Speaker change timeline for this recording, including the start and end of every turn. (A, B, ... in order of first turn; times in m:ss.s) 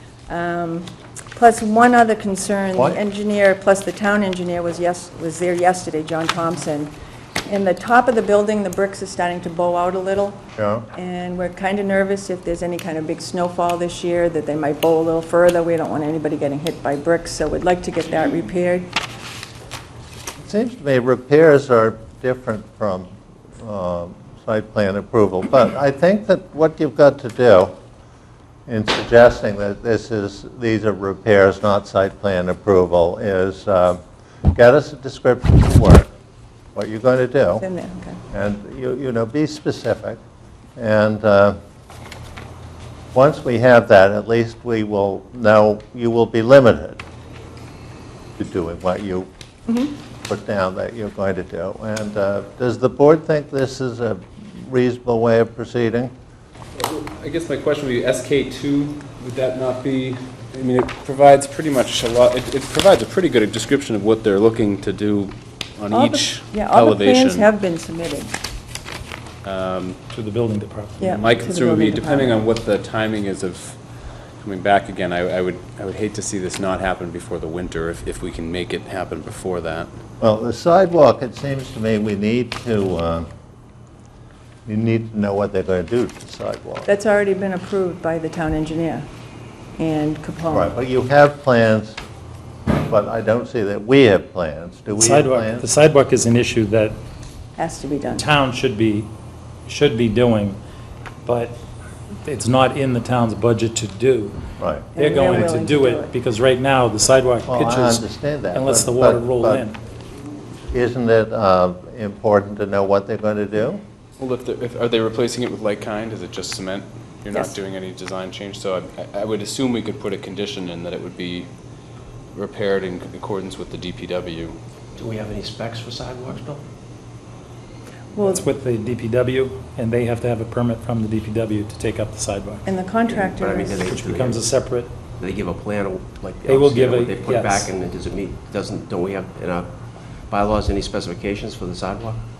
0:00.3-0:06.9 A
0:07.4-0:10.4 A
0:10.6-0:10.9 B
0:10.9-0:19.0 A
0:20.4-0:27.7 B
0:28.7-0:34.0 B
0:34.5-0:36.1 B
0:36.7-0:37.6 B
0:37.6-0:38.2 A
0:38.3-0:40.2 B
0:40.8-0:41.6 B
0:43.1-0:47.0 B
0:48.4-0:49.3 B
0:49.7-0:49.9 A
0:50.3-0:56.1 B
0:56.7-1:07.5 C
1:05.9-1:08.3 A
1:09.4-1:10.0 C
1:10.1-1:11.4 D
1:11.0-1:12.4 A
1:11.0-1:13.8 C
1:14.4-1:19.9 C
1:20.2-1:23.3 B
1:24.6-1:26.9 B
1:26.8-1:29.0 A
1:29.8-1:30.7 A
1:30.5-1:32.0 B
1:32.8-1:35.6 B
1:35.0-1:37.0 D
1:37.6-1:38.3 A
1:38.1-1:39.1 D
1:39.7-1:40.6 D
1:41.2-1:41.6 D
1:42.2-1:49.8 D
1:44.6-1:44.9 B
1:45.0-1:46.1 A
1:47.4-1:49.6 B
1:50.7-1:53.8 B
1:54.2-2:01.5 C
2:02.3-2:04.6 C
2:05.0-2:06.6 E
2:08.2-2:08.4 A
2:08.2-2:12.6 D
2:12.6-2:13.9 A
2:13.1-2:14.5 E
2:13.8-2:14.9 D
2:15.2-2:22.2 E
2:16.4-2:17.6 D